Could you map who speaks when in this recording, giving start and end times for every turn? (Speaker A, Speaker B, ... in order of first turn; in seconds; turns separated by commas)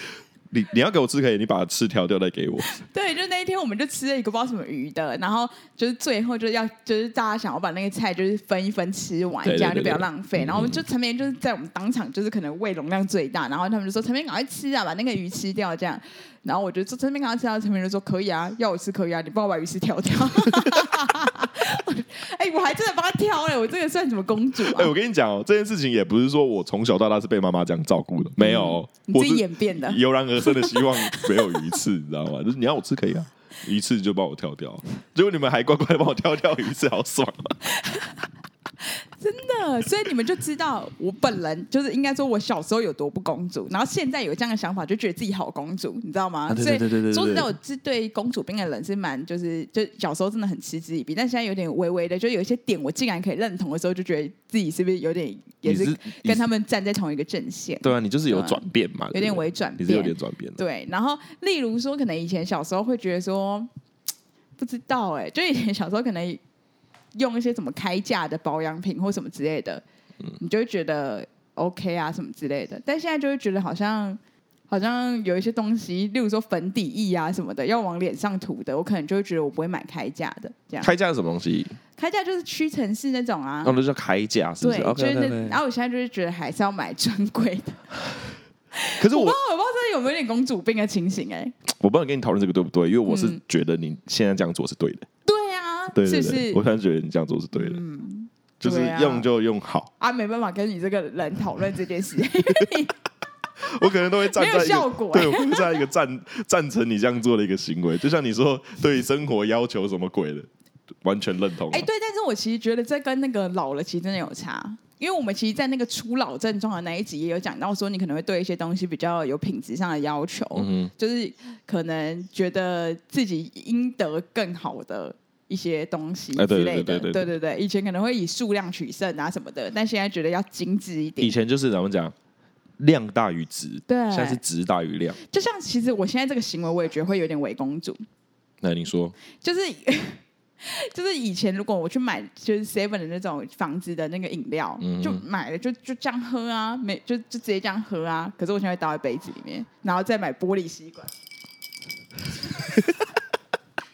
Speaker A: 0.5-2.8, Speaker B: 2.7-24.9, Speaker A: 9.4-10.8, Speaker A: 24.6-37.6, Speaker B: 28.4-31.8, Speaker B: 37.6-38.2, Speaker B: 38.8-63.7, Speaker A: 46.5-47.5, Speaker A: 55.6-56.4, Speaker A: 57.8-60.6, Speaker B: 64.6-66.4, Speaker B: 67.1-69.8, Speaker B: 70.4-80.9, Speaker A: 80.8-81.8, Speaker B: 82.0-83.7, Speaker A: 83.6-85.6, Speaker B: 84.6-87.8, Speaker B: 88.7-91.5, Speaker A: 89.0-89.4, Speaker A: 91.7-95.1, Speaker B: 93.0-93.4, Speaker B: 95.2-96.6, Speaker A: 95.9-97.8, Speaker B: 97.5-99.2, Speaker A: 98.6-99.9, Speaker B: 100.0-103.0, Speaker A: 103.6-110.5, Speaker B: 104.3-105.8, Speaker A: 111.0-111.9, Speaker B: 111.7-131.3, Speaker A: 120.5-120.9, Speaker A: 126.3-127.3, Speaker A: 131.2-132.1, Speaker A: 132.8-135.2, Speaker B: 133.9-134.4, Speaker B: 135.2-138.0, Speaker A: 138.6-139.1, Speaker B: 139.3-151.1, Speaker A: 144.8-145.2, Speaker A: 152.7-153.0